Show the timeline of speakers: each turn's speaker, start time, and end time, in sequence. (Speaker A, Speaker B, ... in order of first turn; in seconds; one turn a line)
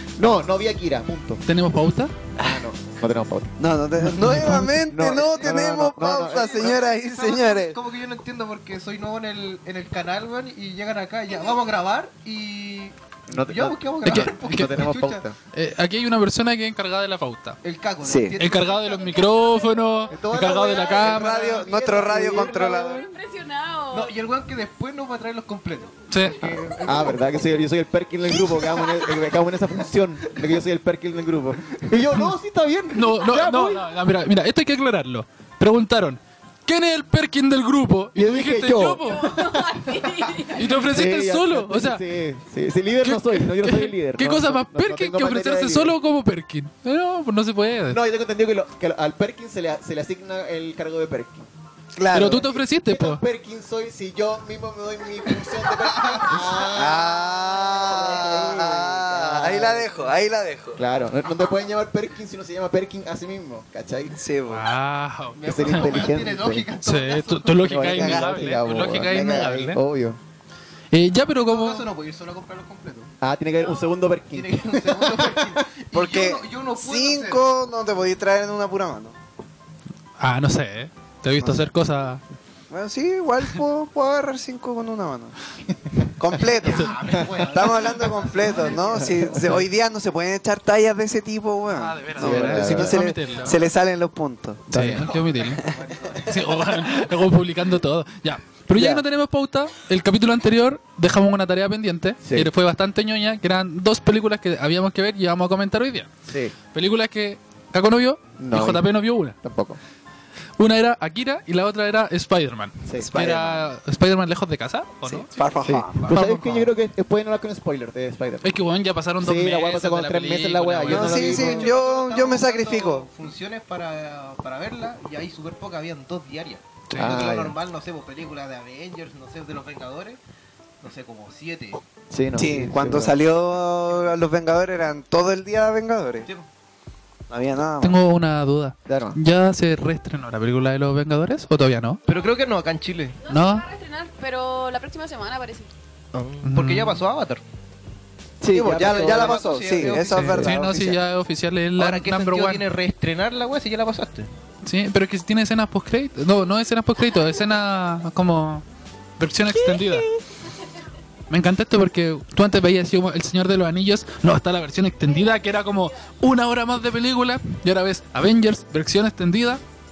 Speaker A: 0.2-1.4
Speaker B: 1.4-2.1
Speaker A: 2.4-3.5
Speaker C: 3.6-7.8
Speaker B: 4.0-4.7
Speaker A: 4.3-6.6
Speaker D: 6.2-15.2
Speaker A: 13.3-15.3
Speaker B: 14.0-14.8
Speaker B: 15.5-17.6
Speaker D: 17.6-18.8
Speaker C: 18.0-18.3
Speaker B: 18.4-21.4
Speaker E: 18.6-20.1
Speaker A: 20.1-22.9
Speaker C: 21.0-23.1
Speaker E: 22.2-24.2
Speaker D: 23.9-27.3
Speaker B: 26.1-26.4
Speaker A: 26.8-33.9
Speaker D: 28.4-29.0
Speaker B: 32.9-39.5
Speaker A: 38.1-39.8
Speaker E: 39.0-41.1
Speaker B: 40.5-42.0
Speaker A: 40.9-46.0
Speaker B: 43.0-48.0
Speaker A: 47.9-51.5
Speaker C: 52.0-52.4
Speaker B: 52.1-53.2
Speaker A: 52.1-59.9
Speaker D: 56.0-56.3
Speaker C: 56.6-60.8
Speaker A: 60.8-64.2
Speaker C: 64.1-64.7
Speaker B: 64.5-66.0
Speaker D: 65.3-67.7
Speaker A: 65.4-66.7
Speaker B: 66.8-69.8
Speaker A: 67.5-70.2
Speaker C: 67.9-69.6
Speaker B: 70.9-71.9
Speaker D: 71.4-73.1
Speaker A: 73.2-75.6
Speaker D: 74.3-77.4
Speaker C: 75.9-79.1
Speaker B: 80.2-82.2
Speaker C: 81.4-81.7
Speaker C: 82.7-85.3
Speaker C: 86.2-94.7
Speaker D: 86.5-89.5
Speaker B: 91.7-93.6
Speaker A: 92.1-93.1
Speaker B: 94.7-95.6
Speaker A: 94.7-95.1
Speaker D: 95.2-96.2
Speaker B: 96.2-106.1
Speaker C: 98.8-99.0
Speaker A: 102.2-102.5
Speaker A: 106.3-106.5
Speaker B: 106.7-109.3
Speaker A: 108.4-109.8
Speaker B: 110.6-115.3
Speaker A: 112.8-113.1
Speaker C: 113.0-113.7
Speaker C: 115.0-116.2
Speaker A: 115.6-118.5
Speaker B: 116.1-116.7
Speaker B: 118.4-121.5
Speaker A: 119.2-121.7
Speaker C: 120.9-123.1
Speaker D: 121.2-130.2
Speaker B: 126.9-127.2
Speaker A: 127.0-127.5
Speaker D: 130.8-131.8
Speaker A: 132.1-133.1
Speaker C: 132.4-136.3
Speaker C: 137.3-138.0
Speaker B: 137.8-142.0
Speaker A: 138.8-139.2
Speaker D: 142.1-143.2
Speaker E: 143.2-145.7
Speaker B: 143.3-143.6
Speaker D: 146.1-147.4
Speaker B: 146.4-147.0
Speaker A: 148.4-149.4
Speaker C: 148.5-151.0
Speaker D: 148.5-150.4
Speaker B: 150.1-152.7
Speaker D: 151.8-154.3
Speaker B: 154.6-158.6
Speaker B: 159.2-160.1
Speaker B: 161.3-169.6